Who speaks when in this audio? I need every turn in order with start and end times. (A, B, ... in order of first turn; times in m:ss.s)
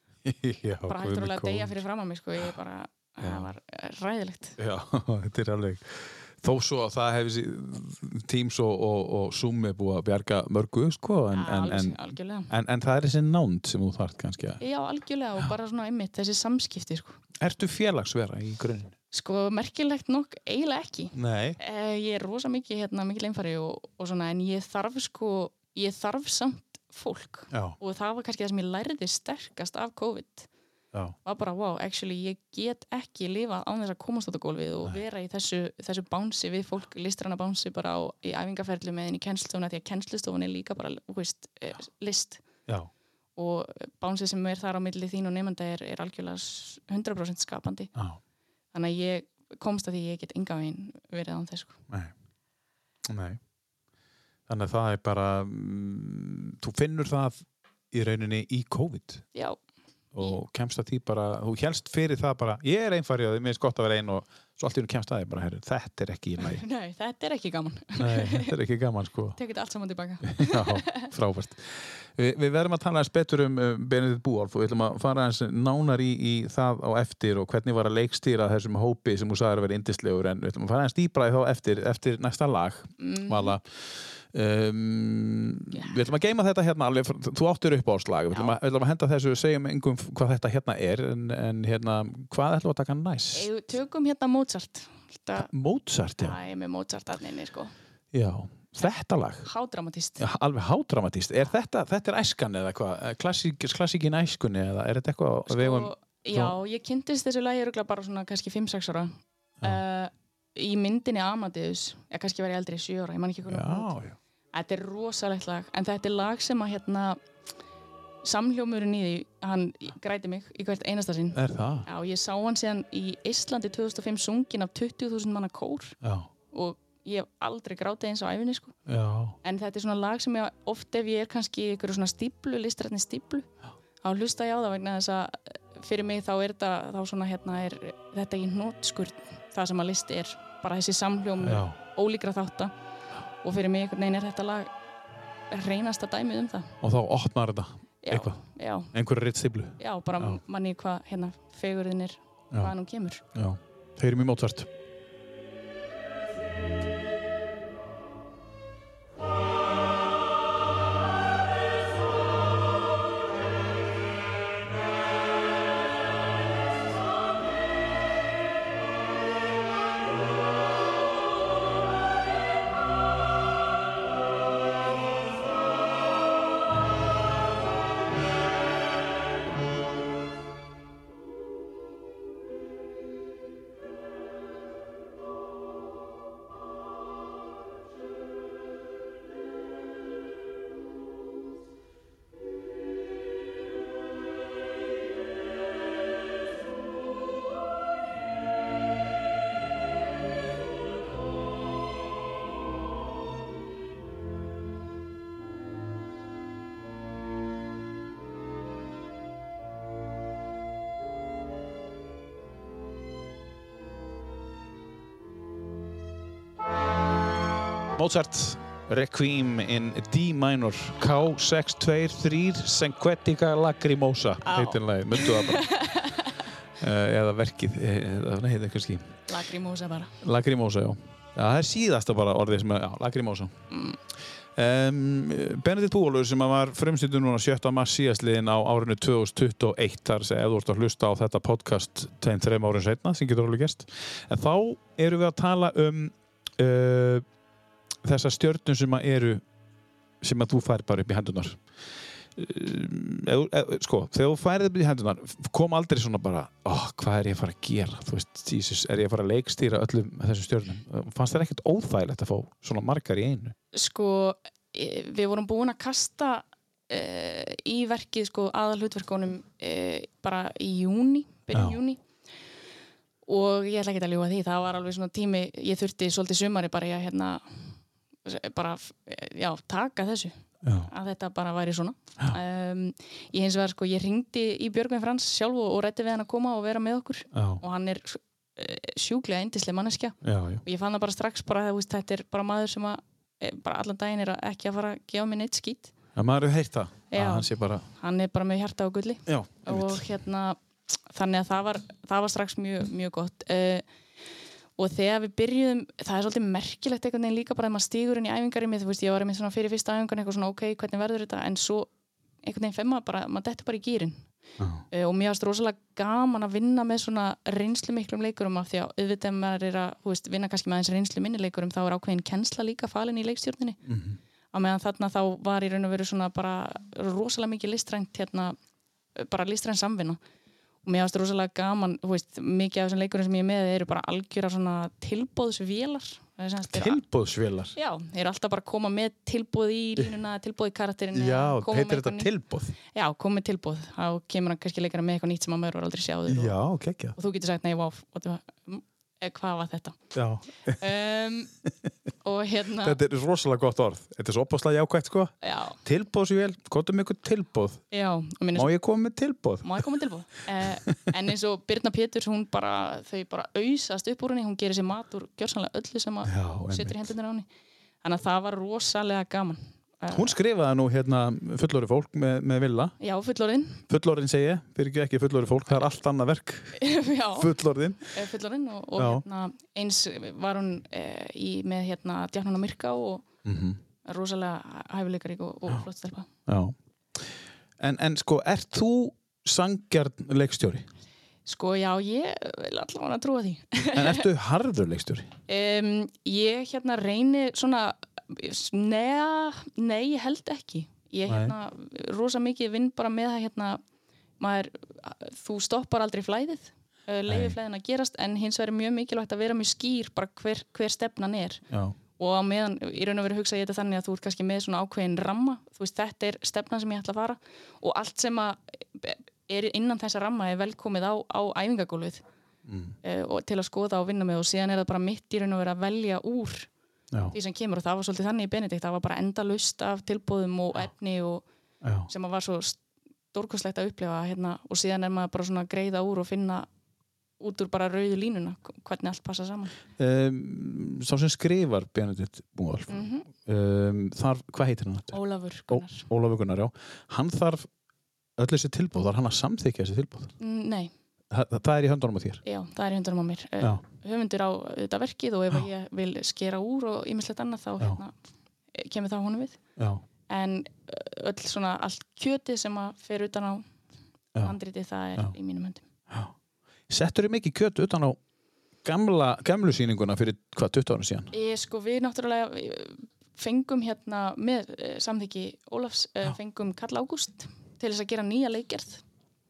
0:00.2-0:01.8 A
0:00.9-0:04.6 B
0:03.2-0:03.5 A
0:04.6-0:14.6 A
0:11.3-0:12.5 B
0:14.6-0:17.2 B
0:17.4-0:18.9 A
0:19.1-0:30.5 B
0:21.2-0:21.6 A
0:27.5-0:27.8 A
0:31.2-0:42.4 B
0:43.4-0:47.9 B
0:48.7-0:51.8 B
0:53.0-0:53.4 A
0:54.5-0:59.3 A
1:00.1-1:06.6 A
1:06.4-1:08.5 B
1:08.0-1:09.4 A
1:09.4-1:11.1 B
1:10.2-1:23.6 A
1:23.0-1:23.6 B
1:24.3-1:33.5 A
1:28.3-1:28.6 B
1:33.3-1:35.5 B
1:35.4-1:36.4 A
1:36.2-1:37.7 B
1:38.1-1:39.5 A
1:39.4-1:40.2 B
1:40.2-1:46.6 A
1:45.5-1:53.9 B
1:53.5-1:54.2 A
1:54.5-1:57.2 B
1:58.2-2:06.0 B
2:01.3-2:01.9 A
2:06.0-2:06.3 A
2:06.5-2:08.8 B
2:08.9-2:09.4 A
2:09.4-2:13.5 B
2:14.0-2:22.7 B
2:21.4-2:21.8 A
2:23.4-2:24.7 B
2:25.5-2:26.7 B
2:26.8-2:28.4 A
2:28.0-2:28.9 B
2:28.9-2:30.4 A
2:29.8-2:33.2 B
2:33.4-2:34.7 A
3:38.0-3:45.7 A
3:44.4-3:46.3 B
3:46.8-3:49.2 A
3:49.3-3:50.1 B
3:50.2-3:53.5 A
3:53.7-3:54.0 B
3:54.6-4:07.2 A
4:08.0-4:09.4 A
4:10.2-4:11.6 A
4:12.4-4:23.6 A
4:23.7-4:32.0 B
4:31.5-4:31.8 A
4:33.3-4:37.6 B
4:38.2-4:55.9 B
4:40.6-4:40.9 A
4:47.3-4:47.6 A
4:50.2-4:50.6 A
4:56.2-4:57.9 A
4:57.1-5:00.6 B
4:59.3-5:00.1 A
5:01.1-5:03.9 B
5:04.8-5:11.9 B
5:12.4-5:14.2 B
5:14.6-5:14.8 A
5:14.9-5:23.8 B
5:23.9-5:24.2 A
5:24.5-5:28.6 B
5:29.2-5:30.2 B
5:30.8-5:37.0 B
5:36.7-5:37.8 A
5:37.8-5:42.3 B
5:41.1-5:42.8 A
5:42.9-5:46.5 B
5:46.3-5:47.2 A
5:47.2-5:50.0 B
5:50.1-5:50.8 A
5:50.7-5:51.5 B
5:52.2-5:53.0 B
5:52.8-5:55.3 A
5:55.4-5:55.8 B
5:55.8-5:57.8 A
5:57.9-5:58.7 B
5:58.6-5:59.9 A
5:59.6-6:07.5 B
6:00.6-6:01.0 A
6:06.2-6:07.1 A
6:08.0-6:10.4 B
6:10.1-6:13.0 A
6:13.0-6:13.8 B
6:13.9-6:18.2 A
6:16.8-6:17.5 B
6:18.0-6:23.2 B
6:19.0-6:19.2 A
6:23.4-6:23.8 A
6:24.0-6:26.3 B
6:26.5-6:27.2 A
6:27.8-6:30.9 A
6:31.5-6:34.3 B
6:33.9-6:35.3 A
6:35.5-6:43.8 B
6:41.3-6:41.6 A
6:44.4-6:51.6 B
6:47.3-6:47.6 A
6:51.7-6:52.0 A
6:52.2-7:02.2 B
7:02.7-7:03.0 A
7:03.0-7:06.7 B
7:07.3-7:11.4 B
7:11.8-7:12.1 A
7:12.1-7:12.8 B
7:13.3-7:16.7 B
7:17.4-7:19.7 B
7:20.0-7:27.7 A
7:22.9-7:23.3 B
7:25.1-7:26.1 B
7:28.4-7:30.3 A
7:30.4-7:30.9 B
7:31.3-7:32.4 A
7:32.4-7:38.1 B
7:38.7-7:39.6 B
7:39.8-7:40.0 A
7:40.3-7:43.7 B
7:44.4-7:45.8 B
7:46.9-7:48.2 A
7:48.8-7:51.3 A
7:51.3-7:59.0 B